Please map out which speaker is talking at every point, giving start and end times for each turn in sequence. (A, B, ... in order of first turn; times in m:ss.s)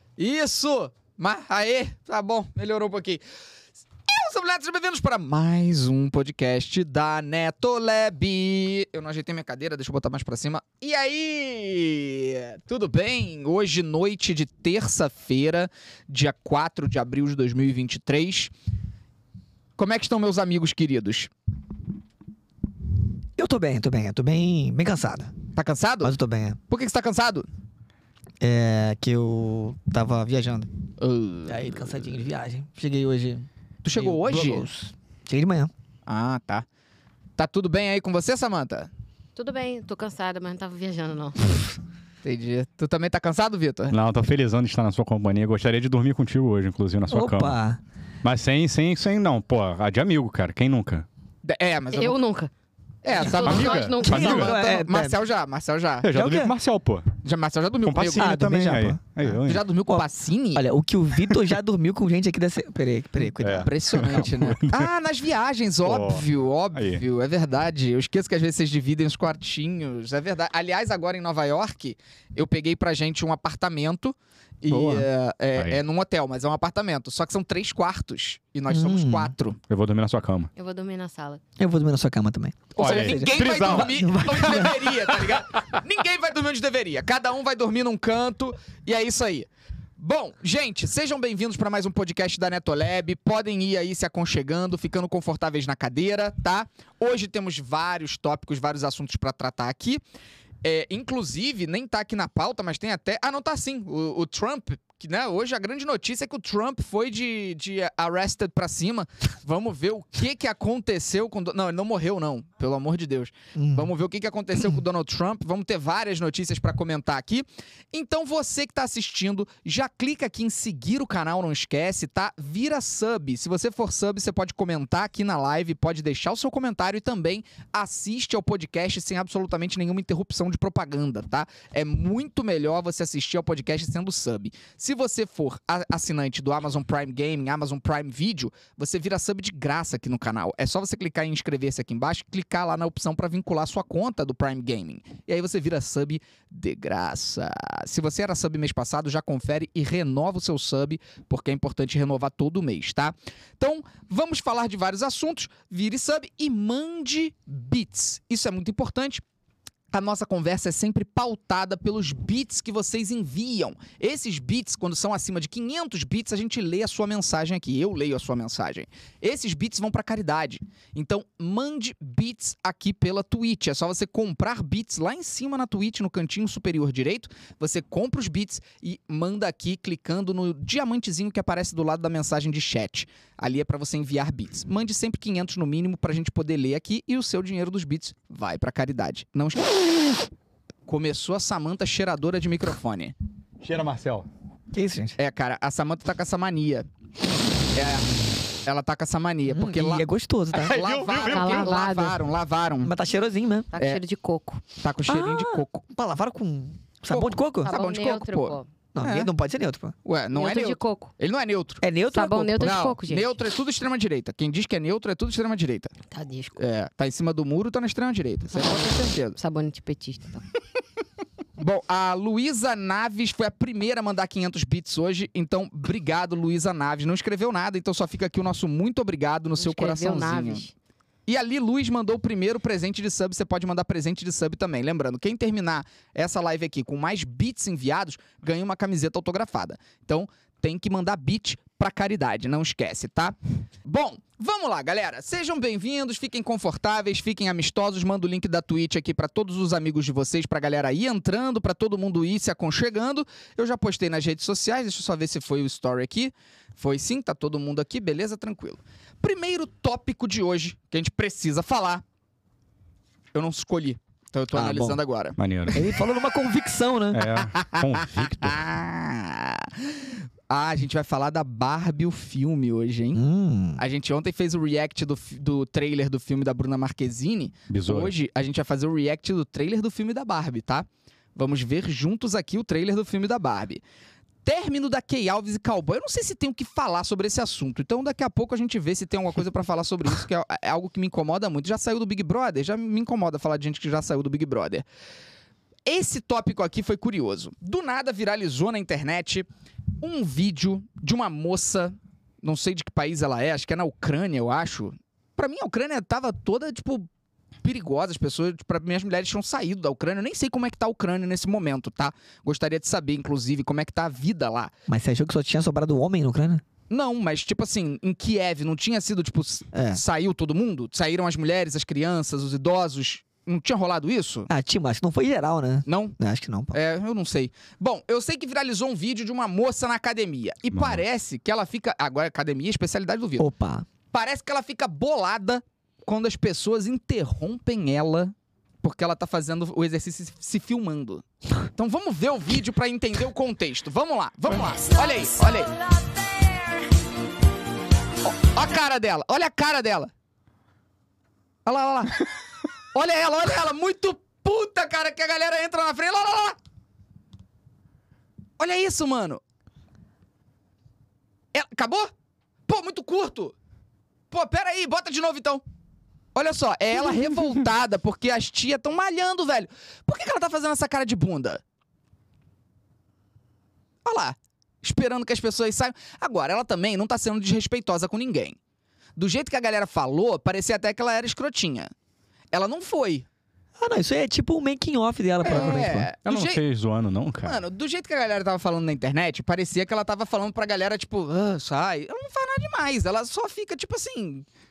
0:00.2-0:03.2 A
0:04.1-0:18.5 A
0:19.8-0:21.3 A
0:23.4-0:25.3 B
0:25.5-0:26.1 A
0:26.0-0:26.6 B
0:26.7-0:27.5 A
0:28.4-0:30.7 B
0:31.0-0:32.0 A
0:31.4-0:35.7 B
0:33.8-0:34.6 A
0:36.1-0:36.6 A
0:37.4-0:38.9 A
0:39.4-0:41.4 C
0:42.2-0:43.9 A
0:43.9-0:47.6 D
0:47.1-0:47.8 B
0:48.2-0:51.0 D
0:51.4-0:52.2 A
0:51.9-0:52.5 C
0:53.0-0:56.2 A
0:53.1-0:54.4 C
0:53.4-0:54.5 D
0:53.9-0:55.2 B
0:56.0-0:57.1 D
0:56.1-0:56.5 B
0:57.2-0:58.3 A
0:57.8-0:59.6 D
0:58.1-1:04.3 B
0:59.4-1:00.6 A
1:03.4-1:04.9 D
1:03.6-1:19.6 A
1:05.8-1:07.0 D
1:14.7-1:15.8 D
1:18.7-1:19.3 B
1:19.7-1:20.5 D
1:20.6-1:21.4 C
1:21.6-1:25.1 B
1:22.8-1:40.0 A
1:22.8-1:25.2 D
1:40.6-2:39.2 A
1:53.6-1:53.9 B
2:39.9-3:09.7 A
3:10.9-3:13.1 A
3:13.6-3:14.3 D
3:14.7-3:15.2 B
3:15.2-3:16.9 A
3:17.7-3:20.0 A
3:19.5-3:20.8 B
3:20.6-3:21.8 D
3:20.7-3:22.9 A
3:21.2-3:22.2 C
3:22.8-3:23.7 B
3:23.7-3:24.6 C
3:23.8-3:24.0 A
3:24.8-3:25.8 A
3:25.1-3:27.7 B
3:27.1-3:29.3 A
3:27.6-3:28.7 C
3:28.9-3:30.0 B
3:30.0-3:31.8 A
3:30.3-3:31.1 C
3:31.8-3:32.8 B
3:32.1-3:33.3 C
3:32.6-3:35.9 A
3:36.1-3:36.6 C
3:36.6-3:39.4 A
3:38.5-3:40.4 C
3:41.6-3:50.6 A
3:49.6-3:50.7 C
3:51.3-4:22.0 A
4:23.3-4:25.9 A
4:24.5-4:25.0 B
4:25.4-4:25.8 D
4:25.7-4:27.3 B
4:27.1-4:28.6 D
4:27.4-4:33.2 A
4:33.1-4:33.8 B
4:33.8-4:43.8 A
4:37.7-4:38.1 D
4:44.4-4:54.8 A
4:55.8-4:59.5 A
5:00.0-5:07.1 A
5:07.6-5:14.7 A
5:14.9-5:16.6 B
5:16.9-5:24.5 A
5:19.7-5:20.0 B
5:24.5-5:26.8 B
5:25.8-5:26.1 A
5:26.7-5:33.4 A
5:30.7-5:31.0 D
5:33.4-5:33.8 B
5:34.1-5:41.2 A
5:41.8-5:45.7 A
5:44.9-5:46.8 C
5:48.2-5:50.1 A
5:51.6-5:52.2 A
5:52.9-5:56.6 A
5:58.6-5:59.4 A
6:01.5-6:02.1 A
6:02.7-6:03.5 A
6:04.3-6:05.6 A
6:06.3-6:11.6 A
6:14.0-6:18.6 A
6:19.2-6:21.9 A
6:22.5-6:23.2 A
6:23.8-6:26.1 B
6:25.4-6:26.6 A
6:25.5-6:27.6 D
6:27.4-6:34.4 A